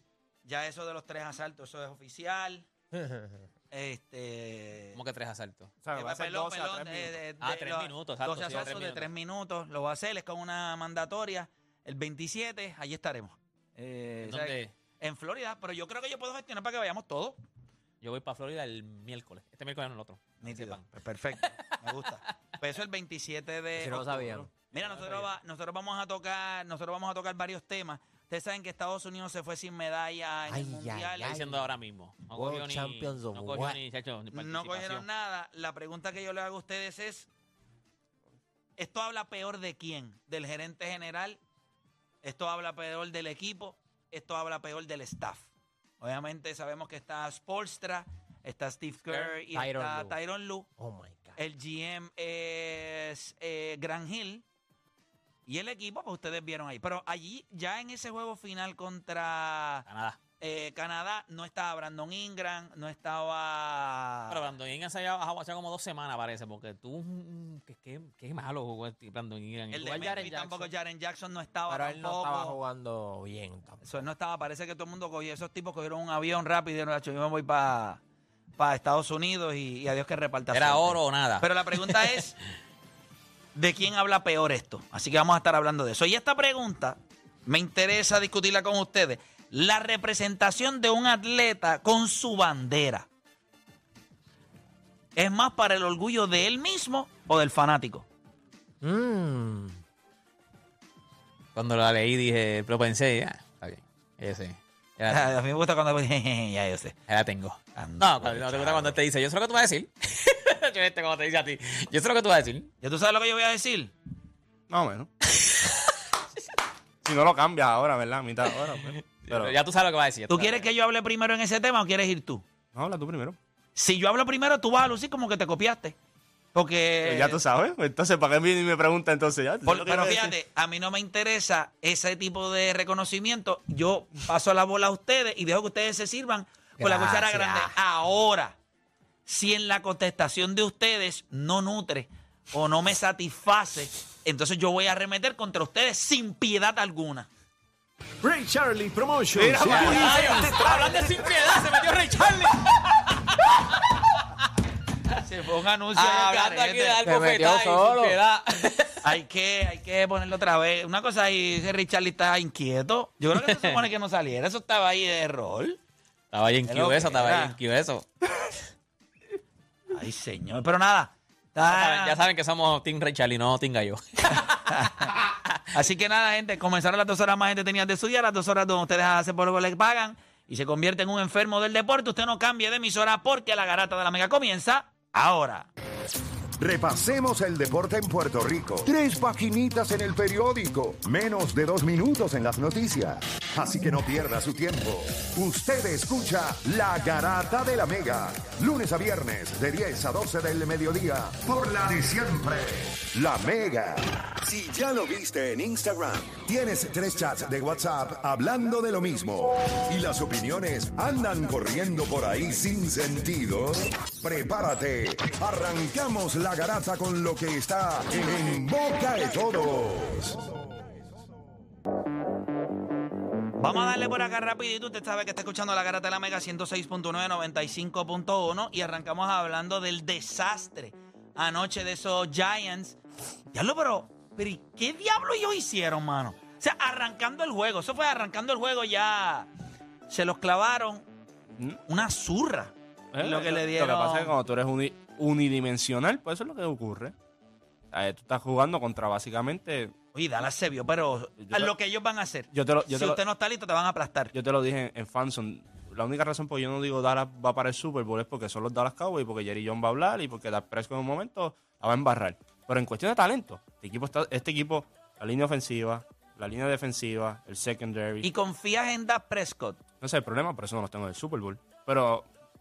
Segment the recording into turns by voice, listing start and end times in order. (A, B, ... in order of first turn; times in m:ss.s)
0:00.4-0:02.7 A
0:02.9-0:03.4 B
0:03.7-0:05.0 A
0:04.9-0:05.7 C
0:05.8-0:07.2 D
0:05.9-0:17.4 A
0:07.4-0:09.1 C
0:14.2-0:14.7 C
0:18.0-0:20.8 C
0:20.4-0:31.3 A
0:21.4-0:21.7 C
0:23.8-0:24.5 B
0:24.8-0:25.3 C
0:30.5-0:31.7 B
0:31.2-0:35.0 C
0:32.3-0:33.8 B
0:34.3-0:37.3 A
0:38.8-0:41.4 A
0:42.2-0:45.5 A
0:46.0-0:50.7 A
0:49.1-0:49.3 C
0:49.5-0:50.2 B
0:50.8-0:51.4 B
0:51.4-0:54.4 A
0:55.4-0:59.9 A
0:59.9-1:00.2 C
1:00.4-1:04.5 A
1:04.3-1:10.2 C
1:09.7-1:12.6 A
1:09.8-1:10.7 B
1:11.7-1:13.8 B
1:13.8-1:18.0 A
1:18.6-1:22.4 A
1:20.5-1:22.2 C
1:23.5-1:33.1 A
1:35.2-1:38.0 A
1:38.8-1:39.8 B
1:41.5-1:45.3 C
1:45.1-1:47.0 A
1:47.1-1:52.7 C
1:47.8-1:49.0 A
1:52.8-1:53.9 A
1:54.7-1:55.1 D
1:55.3-1:55.9 C
1:57.0-1:59.5 D
1:58.5-2:00.7 C
2:00.3-2:02.4 A
2:02.7-2:03.4 D
2:03.8-2:06.0 A
2:06.5-2:07.4 A
2:07.0-2:10.3 D
2:09.6-2:18.6 A
2:16.8-2:17.7 B
2:19.2-2:27.3 A
2:28.3-2:29.9 E
2:29.4-2:34.0 C
2:29.4-2:30.6 D
2:29.6-2:30.8 A
2:35.1-2:37.0 A
2:35.9-2:39.2 C
2:37.0-2:38.2 B
2:39.0-2:45.8 A
2:43.3-2:43.8 C
2:46.3-2:48.0 C
2:46.6-2:47.5 A
2:49.9-2:52.2 A
2:51.6-2:55.1 C
2:54.4-2:55.2 A
2:55.7-3:05.7 A
3:06.6-3:40.5 E
3:43.6-3:53.0 A
3:53.5-3:59.5 A
4:00.1-4:01.0 A
4:01.9-4:04.3 A
4:03.1-4:07.1 D
4:07.9-4:09.9 D
4:10.1-4:14.3 A
4:11.4-4:11.7 D
4:12.5-4:13.2 D
4:14.3-4:28.3 D
4:28.2-4:29.8 A
4:30.0-4:32.2 D